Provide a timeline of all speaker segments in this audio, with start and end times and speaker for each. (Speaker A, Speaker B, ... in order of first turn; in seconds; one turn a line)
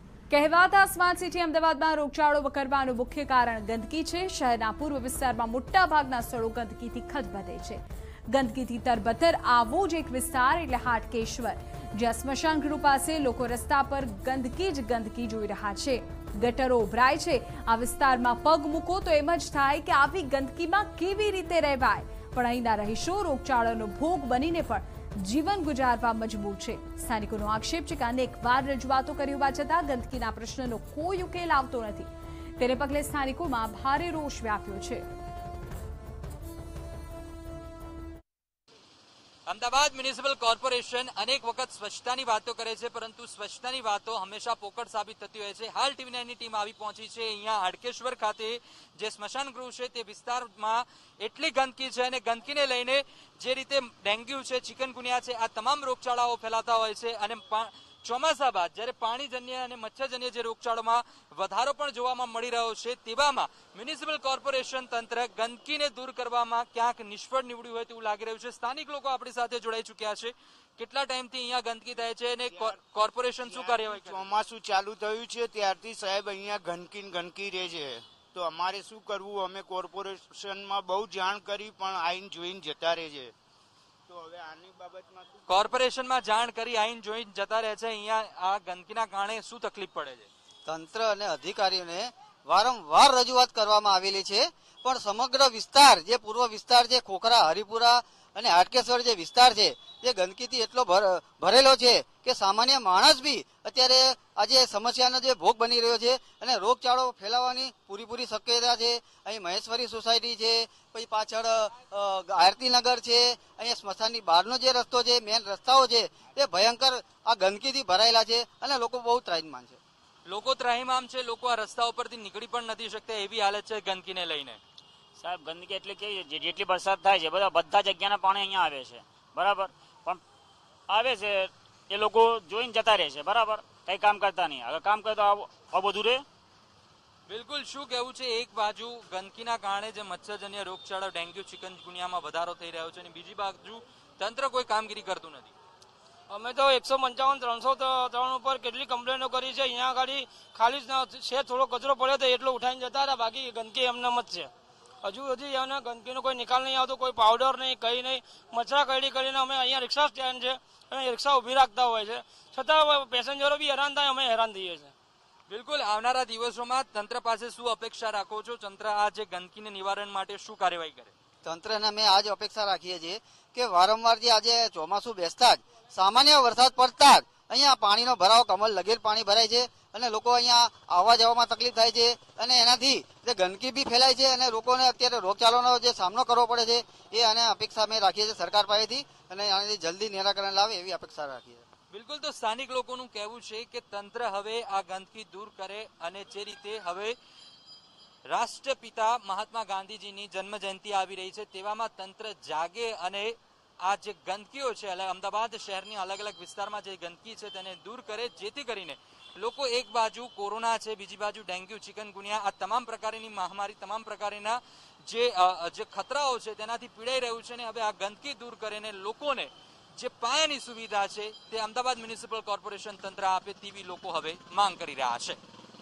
Speaker A: 0.3-35.0
Speaker B: 39.5-74.3
Speaker C: 72.5-72.8
Speaker C: 73.5-83.3
Speaker C: 84.1-85.5
Speaker B: 85.5-90.3
Speaker D: 90.7-119.8
Speaker B: 120.3-124.6
Speaker E: 125.2-130.2
Speaker E: 130.9-136.2
Speaker B: 137.3-145.5
Speaker F: 146.3-154.5
Speaker F: 155.0-164.9
Speaker B: 165.5-171.1
Speaker D: 171.4-191.7
Speaker B: 191.9-197.2
Speaker B: 198.3-225.4